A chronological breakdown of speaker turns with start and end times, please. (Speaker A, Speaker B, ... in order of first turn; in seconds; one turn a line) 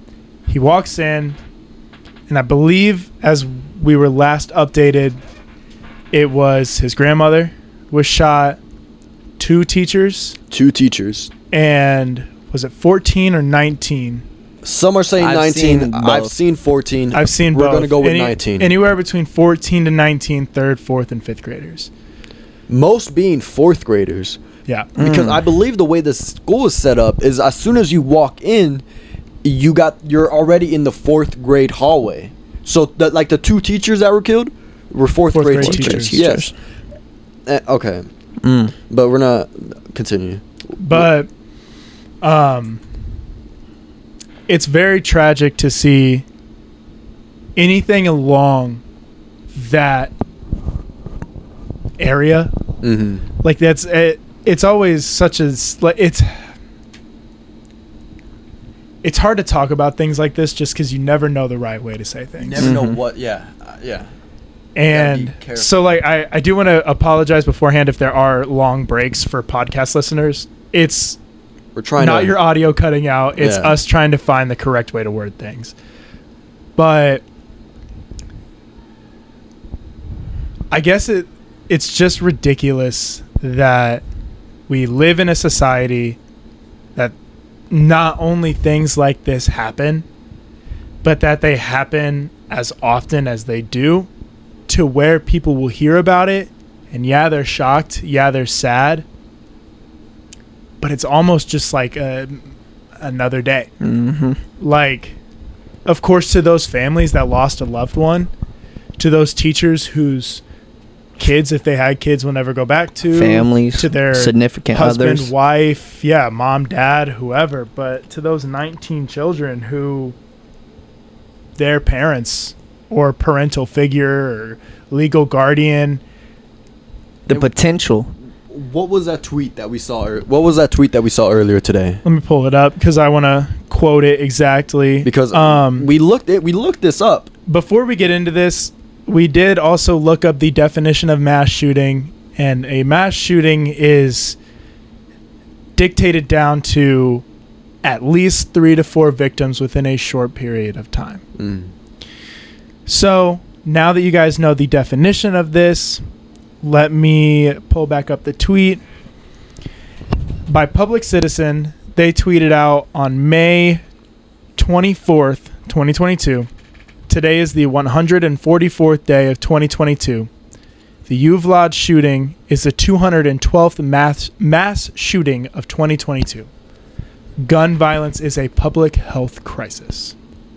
Speaker A: 0.5-1.4
Speaker A: 2.3-5.2
Speaker A: 6.1-8.6
Speaker A: 9.4-10.4
Speaker B: 10.5-11.3
Speaker A: 11.5-14.2
Speaker B: 14.6-18.7
Speaker C: 15.2-16.3
Speaker A: 17.1-21.9
Speaker B: 22.7-24.4
Speaker A: 24.7-24.9
Speaker C: 25.0-25.5
Speaker B: 25.0-28.8
Speaker B: 29.4-36.5
Speaker A: 35.3-36.2
Speaker C: 35.6-36.5
Speaker B: 37.5-38.0
Speaker C: 38.4-38.7
Speaker B: 38.9-41.1
Speaker A: 40.8-41.3
Speaker A: 42.2-42.8
Speaker A: 44.5-46.2
Speaker A: 47.5-48.8
Speaker A: 49.5-50.1
Speaker A: 52.0-52.5
Speaker B: 52.8-53.2
Speaker A: 53.4-56.4
Speaker A: 59.0-62.7
Speaker B: 62.4-64.1
Speaker C: 62.6-63.0
Speaker A: 64.8-71.2
Speaker B: 64.9-65.8
Speaker B: 71.8-72.4
Speaker A: 72.0-75.7
Speaker B: 73.4-73.8
Speaker A: 76.8-77.2
Speaker A: 80.7-84.0
Speaker A: 84.7-86.2
Speaker A: 87.7-90.0
Speaker A: 91.0-94.1
Speaker A: 94.7-99.0
Speaker A: 100.8-103.7
Speaker C: 103.8-104.4
Speaker A: 104.6-105.2
Speaker A: 105.8-108.3
Speaker A: 109.0-110.4
Speaker A: 111.2-120.1
Speaker C: 113.1-115.3
Speaker A: 121.6-126.0
Speaker C: 127.3-128.1
Speaker B: 128.5-132.0
Speaker A: 132.0-135.9
Speaker B: 135.0-137.3
Speaker A: 137.5-144.4
Speaker A: 145.8-147.2
Speaker A: 147.8-151.2
Speaker B: 151.4-151.7
Speaker A: 152.9-156.0
Speaker A: 156.6-158.8
Speaker A: 160.5-163.8
Speaker A: 164.6-166.5
Speaker A: 167.1-170.3
Speaker A: 171.1-176.5
Speaker A: 177.4-180.1